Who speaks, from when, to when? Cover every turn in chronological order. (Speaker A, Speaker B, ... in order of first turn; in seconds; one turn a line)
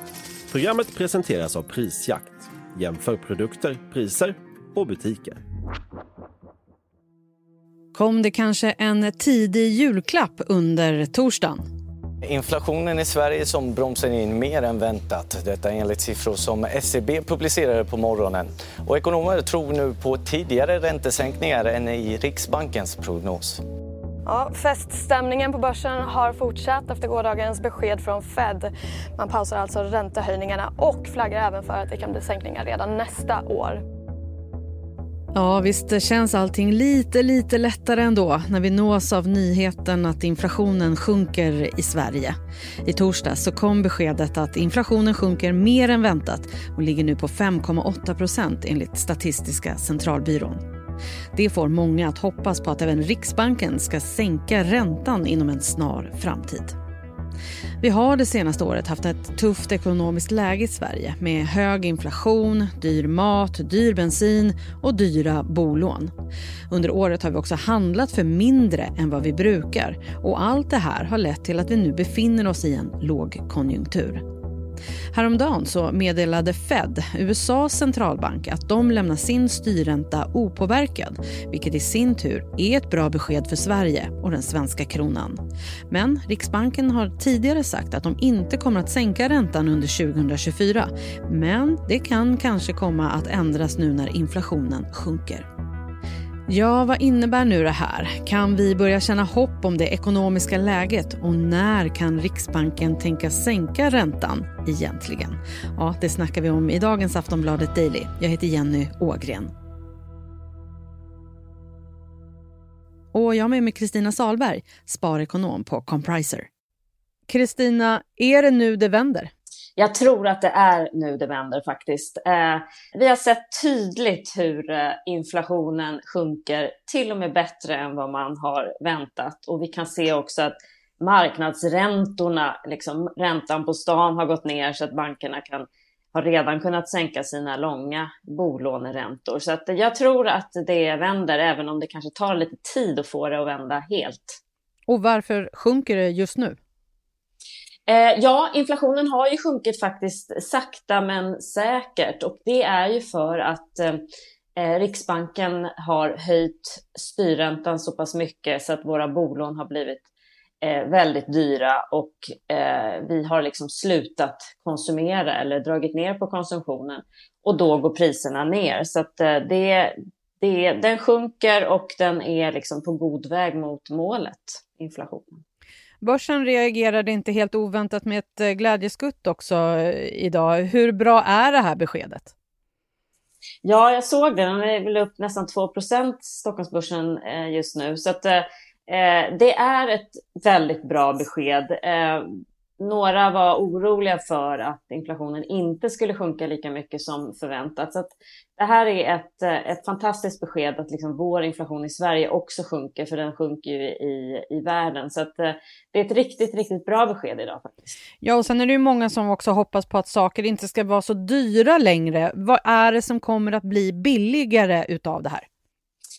Speaker A: 0.5-5.4
Speaker B: 7.9-11.6
Speaker C: 12.2-23.6
Speaker D: 24.2-33.8
Speaker B: 35.3-50.6
Speaker B: 51.3-56.8
Speaker B: 57.8-66.1
Speaker B: 66.7-74.2
Speaker B: 75.1-95.5
Speaker B: 96.5-109.5
Speaker B: 113.1-116.5
Speaker B: 117.3-119.3
Speaker E: 119.8-144.4
Speaker B: 144.9-146.6
Speaker E: 147.9-154.0
Speaker E: 154.6-160.1
Speaker E: 160.6-175.4
Speaker B: 176.0-182.3
Speaker E: 183.6-192.2
Speaker E: 192.8-207.9
Speaker B: 208.2-215.5